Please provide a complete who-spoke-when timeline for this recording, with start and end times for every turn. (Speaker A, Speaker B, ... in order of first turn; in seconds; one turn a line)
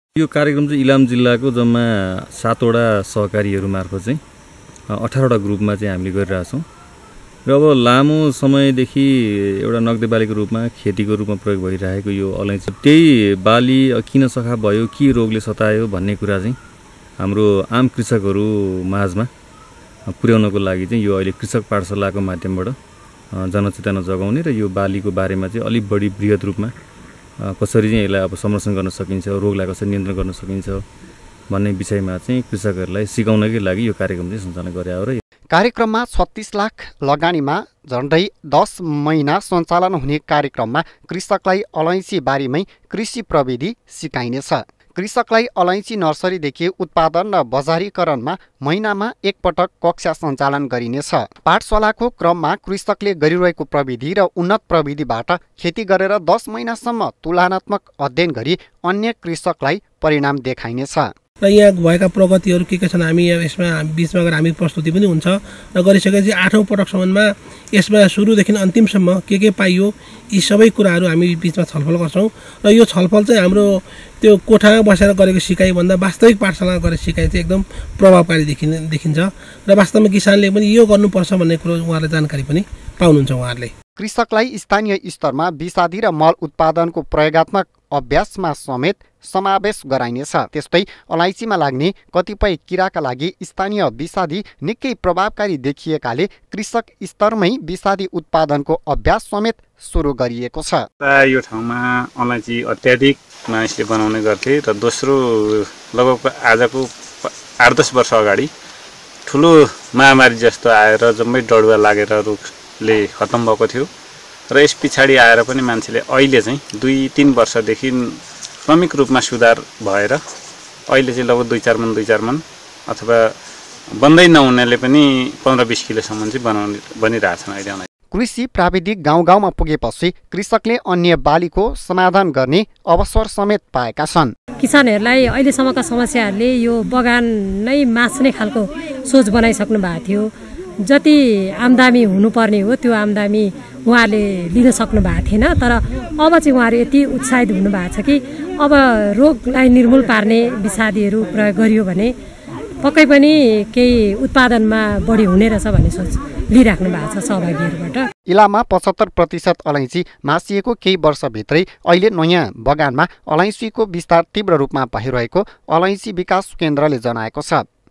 Speaker A: 0.1-4.2
Speaker A: 4.9-6.6
Speaker A: 7.5-16.6
Speaker A: 17.2-19.3
Speaker A: 20.1-22.7
Speaker A: 23.3-26.7
Speaker A: 27.4-30.8
Speaker A: 31.5-35.2
Speaker B: 35.5-61.1
Speaker C: 61.7-65.2
Speaker C: 65.8-67.2
Speaker C: 67.8-69.7
Speaker C: 70.5-72.1
Speaker C: 72.7-73.6
Speaker C: 74.2-77.5
Speaker C: 78.0-83.6
Speaker B: 84.0-100.9
Speaker D: 101.0-108.5
Speaker D: 109.3-113.9
Speaker D: 114.5-118.1
Speaker D: 118.6-120.2
Speaker D: 120.9-123.3
Speaker D: 123.9-127.9
Speaker B: 128.1-134.3
Speaker E: 134.6-140.3
Speaker E: 140.8-152.1
Speaker E: 152.8-158.1
Speaker B: 158.3-167.7